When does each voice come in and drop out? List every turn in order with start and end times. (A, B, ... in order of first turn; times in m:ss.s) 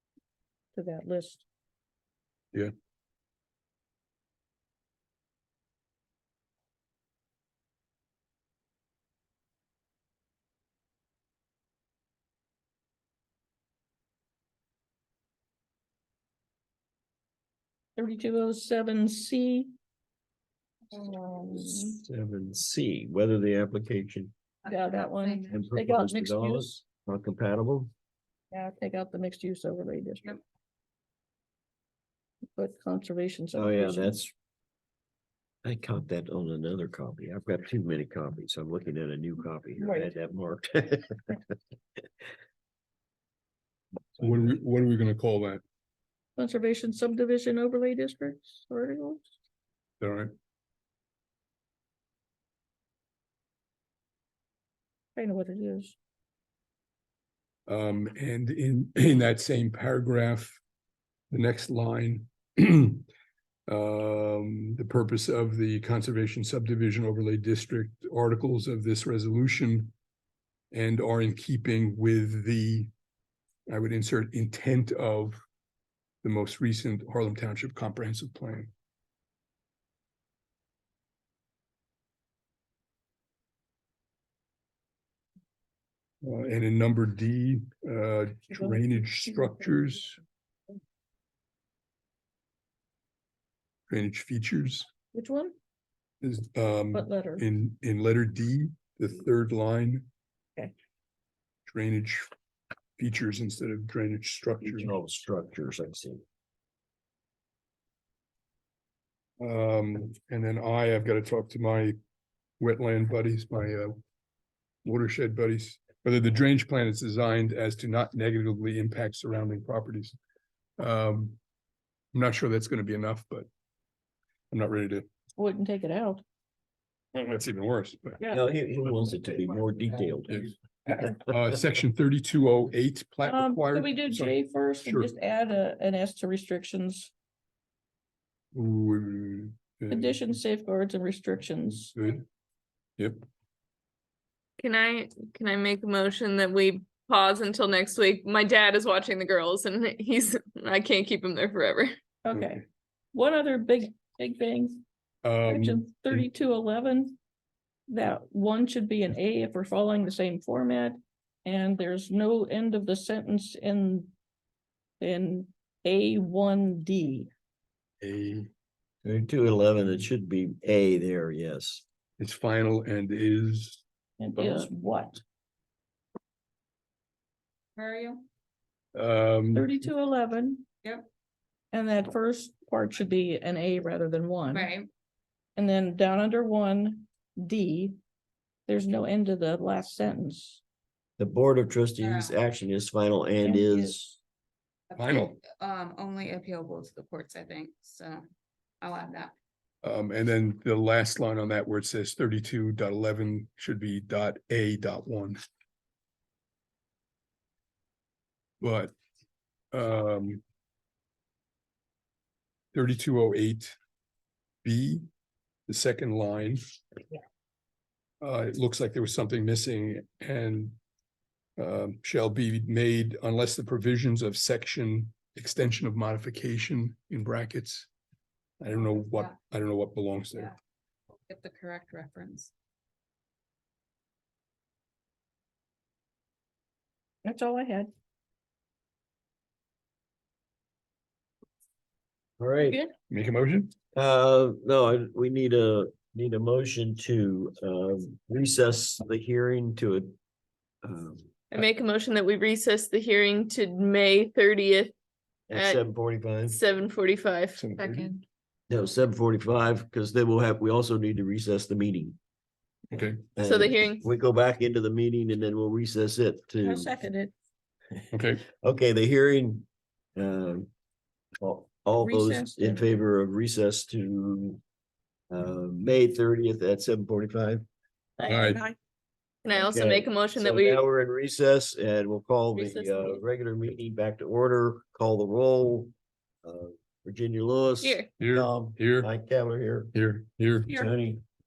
0:00.7-0:01.4 A
0:18.0-0:19.7 A
0:20.9-0:22.0 A
0:21.8-0:24.3 B
0:24.6-0:25.6 C
0:24.7-0:26.8 A
0:25.5-0:27.9 B
0:28.5-0:30.4 A
0:32.6-0:34.2 A
0:33.5-0:34.3 B
0:35.6-0:41.4 B
0:39.8-0:40.1 A
0:44.2-0:45.6 D
0:46.4-0:49.3 A
0:50.0-0:50.3 D
0:55.2-0:56.0 A
0:57.7-1:00.6 D
1:01.3-1:03.1 D
1:03.7-1:09.9 D
1:10.7-1:12.9 D
1:13.7-1:15.4 D
1:16.2-1:18.7 D
1:26.2-1:30.2 D
1:28.6-1:29.5 A
1:33.9-1:34.9 D
1:35.1-1:35.6 A
1:36.2-1:40.1 D
1:36.9-1:37.5 A
1:41.7-1:42.3 D
1:43.0-1:44.9 D
1:44.6-1:46.2 B
1:49.4-1:52.0 D
1:52.6-1:54.0 D
1:54.8-2:00.2 D
2:00.8-2:01.4 D
2:02.1-2:03.5 D
2:04.5-2:05.1 D
2:05.4-2:06.2 A
2:07.1-2:08.3 D
2:08.3-2:10.5 B
2:10.3-2:15.1 D
2:13.2-2:17.1 A
2:18.5-2:20.1 D
2:19.9-2:22.0 A
2:22.0-2:22.2 D
2:23.0-2:23.2 D
2:24.6-2:32.0 E
2:32.2-2:34.8 A
2:35.2-2:36.3 D
2:35.4-2:37.2 A
2:37.9-2:44.1 A
2:45.0-2:47.3 A
2:48.0-2:48.5 D
2:49.0-2:51.8 B
2:52.2-2:53.8 D
2:54.2-2:55.2 A
2:54.4-2:54.7 D
2:57.8-2:58.2 C
2:59.0-2:59.7 D
2:59.5-3:00.7 A
3:01.7-3:04.7 A
3:04.5-3:04.9 C
3:05.6-3:08.0 A
3:08.7-3:10.6 A
3:11.2-3:14.2 B
3:12.0-3:12.4 C
3:13.4-3:14.0 A
3:14.9-3:18.3 C
3:15.0-3:15.4 D
3:18.8-3:19.3 C
3:19.8-3:25.4 D
3:28.6-3:28.9 D
3:29.7-3:30.4 D
3:32.7-3:33.8 D
3:34.6-3:35.1 D
3:35.7-3:36.6 D
3:38.2-3:40.8 D
3:41.6-3:47.9 D
3:48.6-3:50.6 D
3:48.7-3:49.4 C
3:51.1-3:52.5 C
3:57.2-3:57.9 A
4:02.4-4:02.8 B
4:02.6-4:02.9 A
4:03.1-4:03.7 D
4:04.0-4:10.2 B
4:10.8-4:11.3 B
4:11.5-4:14.9 E
4:15.5-4:16.6 B
4:15.5-4:15.8 E
4:16.5-4:17.6 E
4:17.6-4:18.1 D
4:17.8-4:18.2 C
4:18.7-4:22.2 B
4:22.9-4:23.3 D
4:23.4-4:26.9 B
4:23.4-4:24.0 E
4:26.6-4:27.3 A
4:28.1-4:28.5 D
4:28.4-4:30.7 B
4:31.4-4:34.6 B
4:32.0-4:33.0 A
4:35.3-4:37.7 B
4:38.2-4:38.8 A
4:38.2-4:38.6 D
4:39.4-4:40.8 E
4:39.5-4:45.9 B
4:42.6-4:42.8 E
4:46.4-4:49.9 B
4:47.8-4:48.1 E
4:48.2-4:49.1 D
4:49.9-4:50.7 D
4:50.7-4:51.2 B